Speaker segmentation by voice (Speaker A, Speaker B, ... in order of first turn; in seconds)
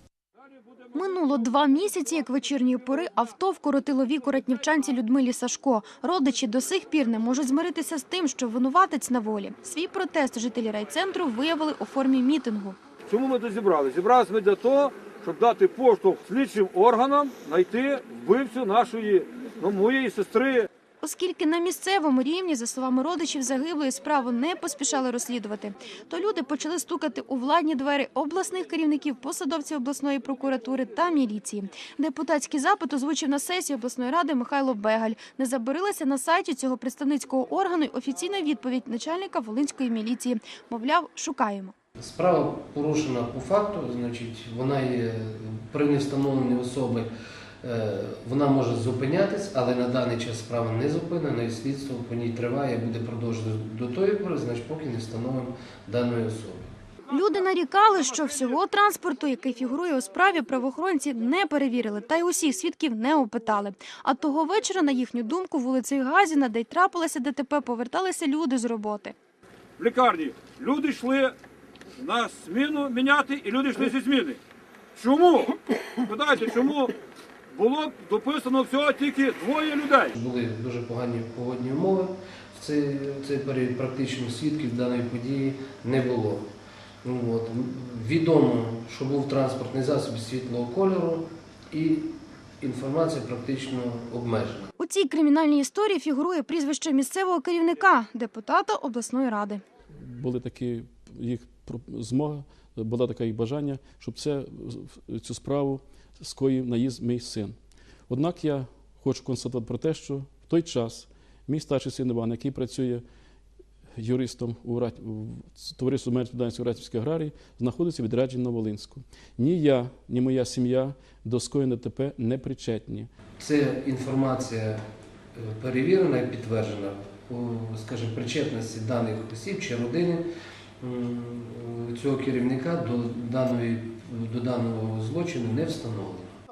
Speaker A: 0.9-12.8, 21.0-41.7, 57.1-69.2, 94.8-99.6
Speaker B: 13.1-20.7, 69.8-71.3, 72.0-74.4, 75.0-76.9, 77.5-80.1
Speaker C: 42.0-47.1, 47.6-56.7, 80.2-86.5, 87.0-94.7, 123.4-124.8, 125.4-130.2, 130.8-136.3
Speaker D: 100.0-107.6, 108.1-113.0, 114.0-123.1